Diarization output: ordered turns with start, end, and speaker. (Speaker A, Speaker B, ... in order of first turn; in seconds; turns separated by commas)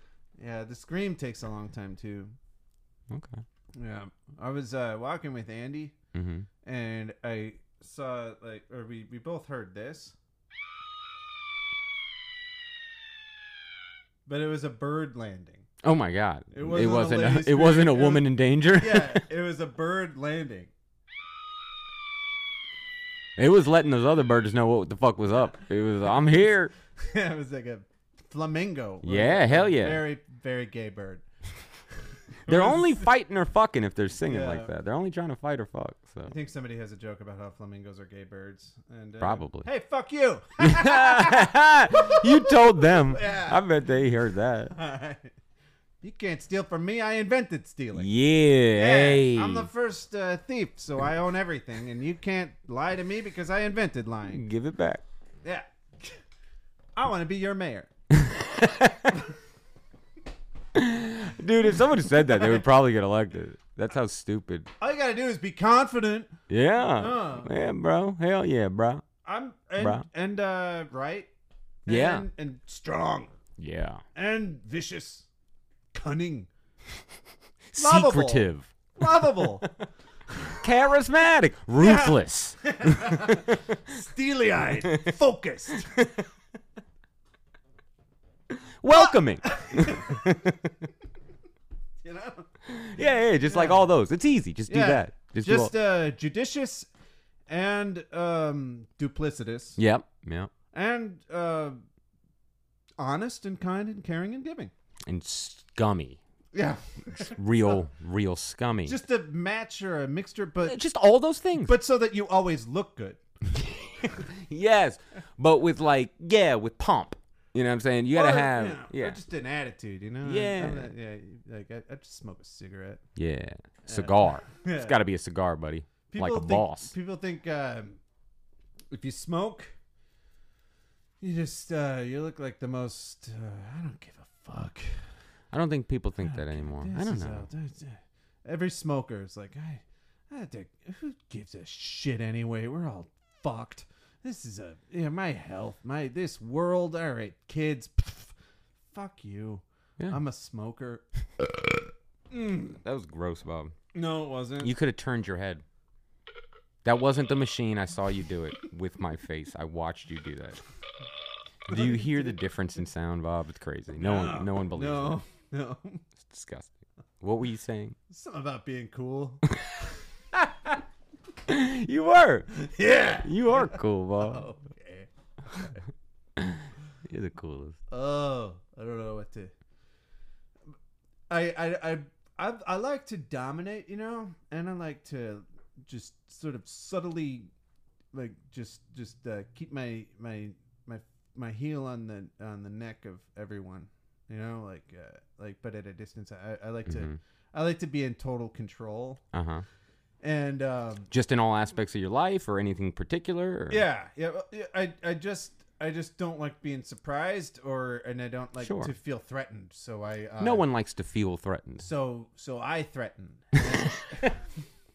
Speaker A: 0.4-2.3, Speaker B: 3.1-3.4, Speaker A: 3.8-6.0, Speaker B: 6.1-6.5, Speaker A: 6.6-10.2, Speaker A: 14.3-15.7, Speaker B: 15.8-19.2, Speaker A: 16.5-20.7, Speaker B: 23.4-26.7, Speaker A: 27.0-31.2, Speaker B: 29.0-30.0, Speaker A: 32.4-33.1, Speaker B: 32.5-36.3, Speaker A: 34.3-34.7, Speaker A: 36.3-43.6, Speaker B: 39.2-39.7, Speaker B: 40.6-44.7, Speaker A: 44.7-45.3, Speaker A: 46.0-48.1, Speaker B: 47.9-49.7, Speaker A: 48.8-54.4, Speaker B: 54.3-55.0, Speaker A: 55.4-56.2, Speaker A: 57.0-57.9, Speaker B: 58.1-59.2, Speaker B: 60.8-64.7, Speaker A: 62.3-62.6, Speaker A: 64.8-66.3, Speaker B: 66.5-69.1, Speaker A: 67.0-67.5, Speaker A: 69.2-71.3, Speaker B: 69.8-70.1, Speaker A: 71.9-73.3, Speaker B: 71.9-72.3, Speaker B: 73.6-74.0, Speaker A: 74.2-75.3, Speaker A: 75.9-76.5, Speaker B: 77.7-79.7, Speaker A: 77.8-79.7, Speaker B: 80.6-84.0, Speaker A: 81.8-86.0, Speaker B: 84.8-85.2, Speaker B: 85.8-86.3, Speaker B: 88.5-90.7, Speaker A: 88.9-90.3, Speaker A: 92.0-92.5, Speaker B: 92.7-95.7, Speaker A: 93.4-93.9, Speaker A: 94.7-96.9, Speaker A: 97.5-99.8, Speaker B: 99.8-100.5, Speaker A: 100.7-101.8, Speaker A: 103.0-104.7, Speaker B: 105.1-106.2, Speaker A: 106.5-107.8, Speaker B: 107.2-109.0, Speaker A: 108.9-110.8, Speaker B: 110.7-111.8, Speaker A: 111.6-113.2, Speaker B: 113.5-119.2, Speaker A: 118.1-123.0, Speaker B: 120.2-120.9, Speaker B: 123.2-126.9, Speaker A: 123.8-125.0, Speaker A: 126.1-128.0, Speaker A: 128.9-129.7, Speaker A: 131.2-135.1, Speaker B: 135.5-137.5, Speaker A: 136.2-148.3, Speaker A: 148.9-151.0, Speaker A: 152.3-152.8, Speaker B: 152.8-153.8, Speaker A: 153.9-154.7, Speaker B: 154.6-155.6, Speaker B: 156.8-160.6, Speaker B: 161.7-165.2, Speaker A: 161.7-162.3, Speaker A: 164.0-166.0, Speaker B: 166.2-168.0, Speaker A: 168.1-169.4, Speaker B: 169.5-170.8, Speaker B: 171.5-172.5, Speaker A: 172.6-175.8, Speaker B: 173.2-174.5, Speaker B: 176.4-177.8, Speaker A: 177.9-179.5, Speaker A: 181.3-187.5, Speaker A: 188.1-199.2, Speaker B: 196.9-197.2, Speaker B: 199.3-199.7, Speaker A: 200.2-201.1, Speaker B: 201.1-203.8, Speaker A: 203.7-210.7, Speaker B: 208.6-208.9, Speaker B: 210.4-211.9, Speaker A: 211.8-214.4, Speaker B: 213.7-214.3